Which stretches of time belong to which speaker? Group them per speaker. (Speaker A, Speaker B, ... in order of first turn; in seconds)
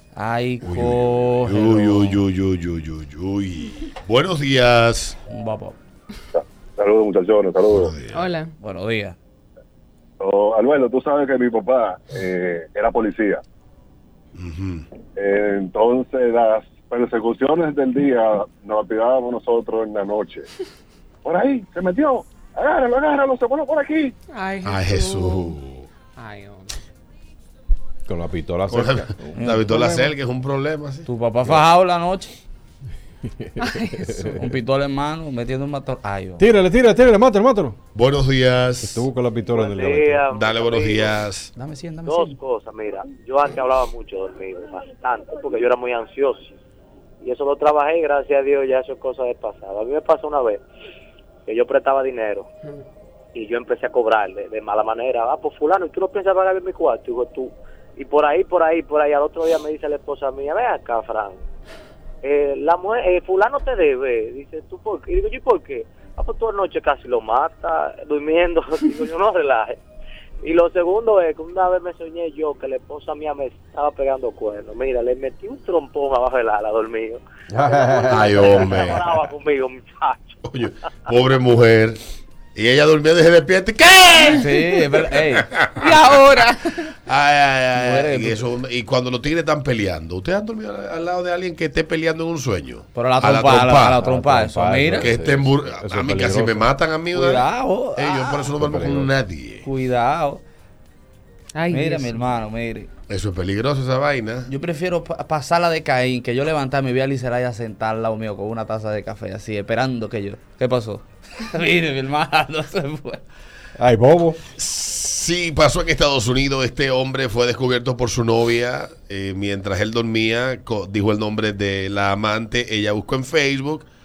Speaker A: 0.1-2.2, 5.3-5.8, 8.6-9.2, 29.4-30.1, 31.1-32.4, 34.4-36.5, 41.6-42.4, 84.2-85.7, 87.8-88.4, 93.0-95.1, 97.1-98.6, 99.6-100.4, 101.7-102.9, 104.5-113.2
Speaker B: 0.6-5.2, 7.7-8.3, 14.4-14.9, 24.6-25.9, 28.7-31.1, 38.0-39.1, 40.3-41.5, 78.1-79.0, 80.5-82.0, 82.5-86.2, 86.7-94.0, 95.0-99.7, 103.1-104.5, 114.6-123.9
Speaker C: 6.3-8.0, 10.2-13.4, 15.2-20.5, 21.2-24.1
Speaker D: 8.1-8.5, 24.3-25.6, 26.2-26.8, 33.6-34.4, 85.8-86.8, 101.5-102.2
Speaker E: 28.1-29.8, 33.4-34.4, 36.4-37.8, 38.8-40.2, 77.5-78.9, 94.0-96.7, 98.6-99.1, 113.8-114.4
Speaker F: 39.5-41.2, 42.1-46.6, 47.2-50.6, 51.5-52.5, 53.4-61.4, 62.2-69.8, 70.4-80.4